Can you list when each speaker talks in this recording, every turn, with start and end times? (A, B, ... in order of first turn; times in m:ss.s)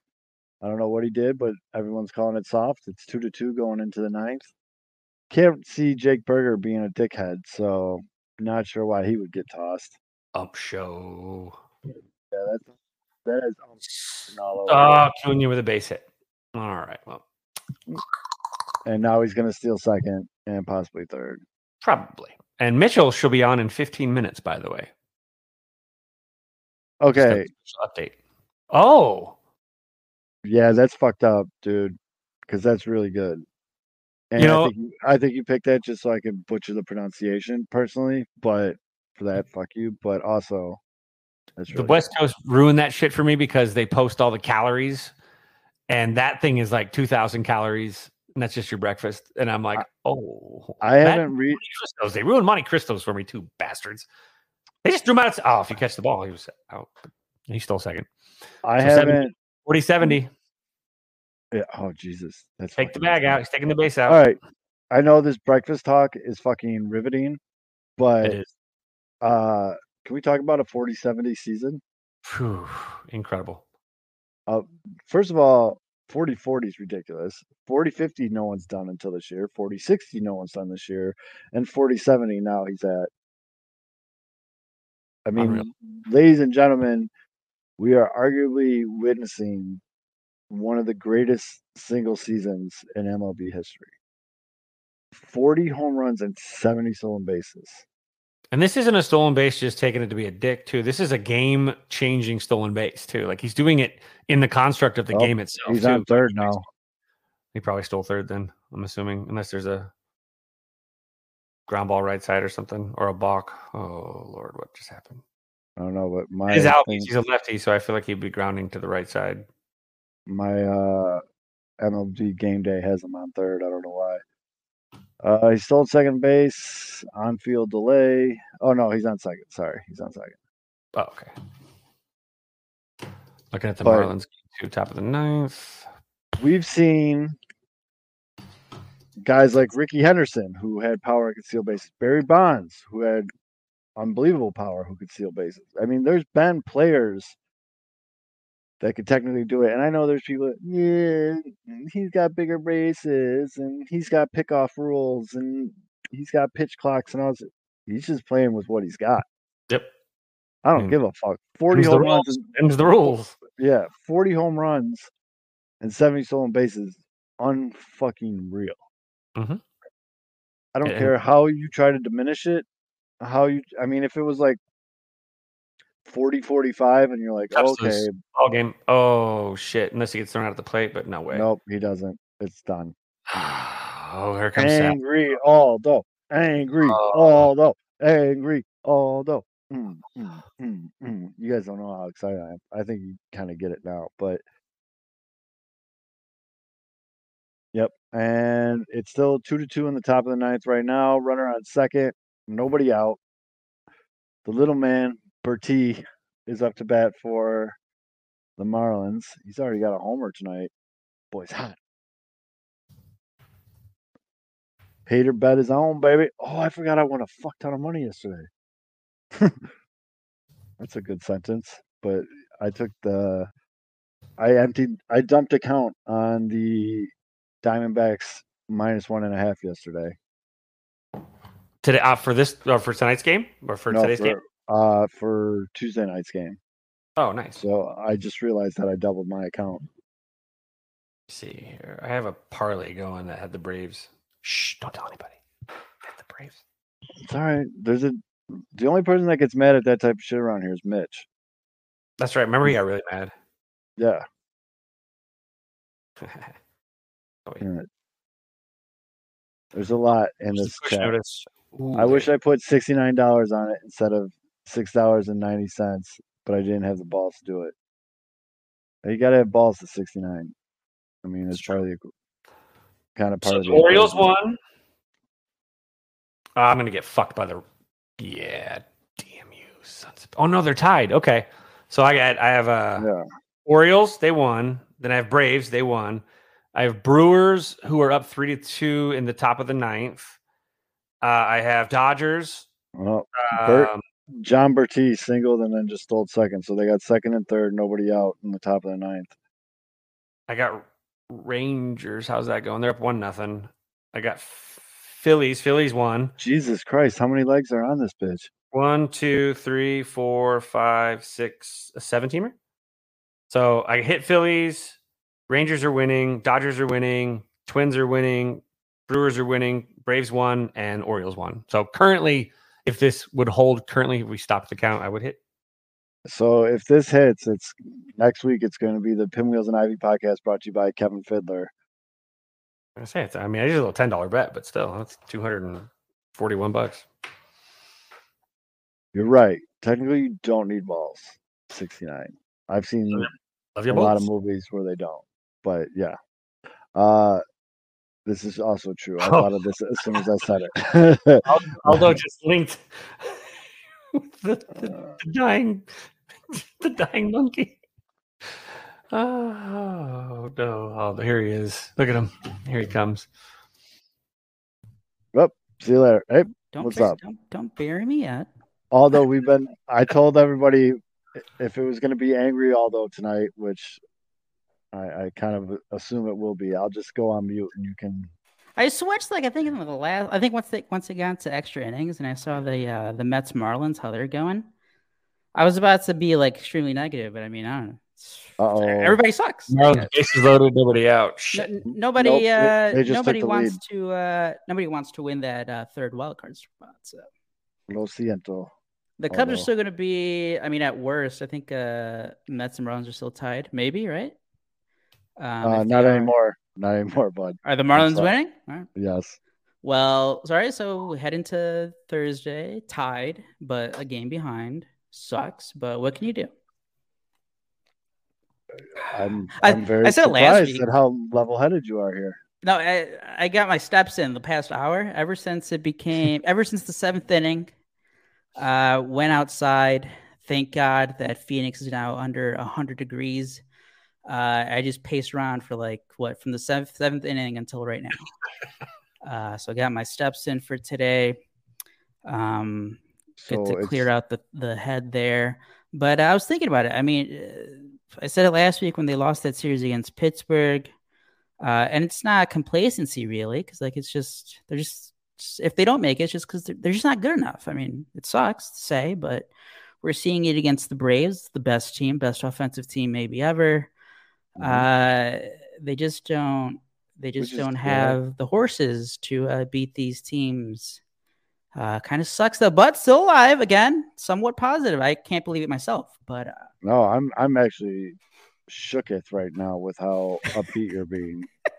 0:00.6-0:04.5 A
0:05.3-0:10.0 A
0:10.3-0:11.6 B
0:12.3-0:12.7 A
0:13.2-0:15.1 A
0:14.7-0:17.2 B
0:18.8-0:21.4 A
0:21.8-0:24.9 B
0:27.0-0:27.5 A
0:27.2-0:28.2 B
0:28.7-0:29.4 B
0:30.4-0:32.0 A
0:32.5-0:33.4 A
0:34.3-0:40.8 A
0:34.4-0:34.7 B
0:41.6-0:42.1 A
0:41.7-0:45.1 B
0:45.9-0:54.1 B
0:50.8-0:51.6 A
0:54.8-0:56.9 B
0:57.5-0:58.1 B
0:58.6-0:59.3 A
0:58.8-1:00.3 B
1:01.5-1:03.4 A
1:02.8-1:04.2 B
1:04.1-1:04.4 A
1:04.9-1:07.4 A
1:08.0-1:08.4 A
1:08.2-1:08.5 B
1:09.2-1:11.8 A
1:12.2-1:13.6 B
1:14.5-1:23.1 A
1:25.2-1:27.1 A
1:25.4-1:25.7 B
1:27.8-1:29.8 A
1:30.5-1:33.9 A
1:35.1-1:37.8 A
1:38.5-1:46.7 B
1:45.1-1:46.6 A
1:47.5-1:49.9 B
1:51.7-1:55.2 B
1:55.8-1:57.1 A
1:56.5-1:59.4 B
2:00.3-2:01.2 A
2:01.8-2:04.2 A
2:05.2-2:10.4 A
2:10.9-2:11.3 B
2:13.5-2:15.8 B
2:13.8-2:14.1 A
2:16.4-2:17.4 A
2:19.2-2:23.3 A
2:24.0-2:27.4 A
2:28.8-2:39.2 A
2:40.6-2:42.5 A
2:41.7-2:43.4 B
2:43.6-2:45.1 A
2:45.8-2:48.8 A
2:49.4-2:49.6 B
2:50.7-2:52.6 A
2:50.8-2:51.1 B
2:53.2-2:54.6 A
2:56.0-2:58.2 A
2:57.5-3:01.4 B
3:01.3-3:02.9 A
3:03.3-3:05.0 B
3:04.6-3:14.4 A
3:06.8-3:07.5 B
3:17.7-3:23.2 A
3:24.4-3:27.8 A
3:28.6-3:30.7 A
3:31.3-3:31.8 A
3:35.1-3:38.5 A
3:39.3-3:39.6 A
3:40.8-3:43.5 A
3:44.4-3:47.1 A
3:47.6-3:50.2 A
3:51.8-3:54.3 B
3:53.9-3:56.6 A
3:57.2-3:57.6 B
3:57.6-3:59.9 A
4:01.3-4:05.4 B
4:06.0-4:06.6 B
4:07.2-4:11.3 A
4:12.2-4:13.3 B
4:14.0-4:14.2 A
4:16.2-4:16.5 B
4:17.6-4:17.9 A
4:19.7-4:21.2 A
4:20.5-4:22.3 B
4:21.9-4:27.7 A
4:29.0-4:30.5 A
4:31.2-4:32.1 A
4:31.5-4:31.8 B
4:33.1-4:34.3 A
4:33.4-4:34.6 B
4:36.6-4:37.6 B
4:38.2-4:43.1 B
4:43.0-4:43.2 A
4:43.6-4:46.2 B
4:46.7-4:50.4 B
4:51.2-4:52.7 B
4:53.0-4:59.3 A
4:53.3-4:54.0 B
5:00.5-5:06.3 B
5:06.4-5:08.5 A
5:08.7-5:12.6 B
5:13.5-5:25.4 B
5:26.2-5:31.7 A
5:33.0-5:37.0 B
5:39.1-5:43.3 A
5:43.1-5:44.3 B
5:43.9-5:46.2 A
5:46.9-5:47.4 A
5:48.2-5:52.1 A
5:49.2-5:50.2 B
5:51.4-5:57.8 B
5:58.4-6:03.3 B
6:05.3-6:07.2 A
6:06.7-6:08.5 C
6:08.9-6:14.0 A
6:14.9-6:18.3 A
6:18.8-6:24.7 C
6:25.5-6:30.2 C
6:28.6-6:29.2 A
6:29.7-6:31.7 B
6:31.5-6:37.2 C
6:31.8-6:33.8 A
6:37.9-6:38.7 A
6:39.2-6:44.3 C
6:39.3-6:39.7 A
6:45.4-6:46.3 C
6:45.6-6:48.3 A
6:47.6-6:48.9 C
6:49.0-6:49.4 A
6:49.8-6:56.5 C
6:59.0-7:02.4 A
6:59.5-7:00.8 C
7:02.6-7:07.7 C
7:08.6-7:13.6 C
7:14.2-7:18.3 C
7:19.2-7:21.4 C
7:22.2-7:30.9 C
7:23.4-7:24.1 A
7:31.6-7:39.5 C
7:40.0-7:43.9 C
7:44.6-7:44.9 A
7:44.6-7:51.0 C
7:47.4-7:48.2 A
7:51.7-7:56.6 C
7:56.8-7:58.2 A
7:58.7-8:01.5 A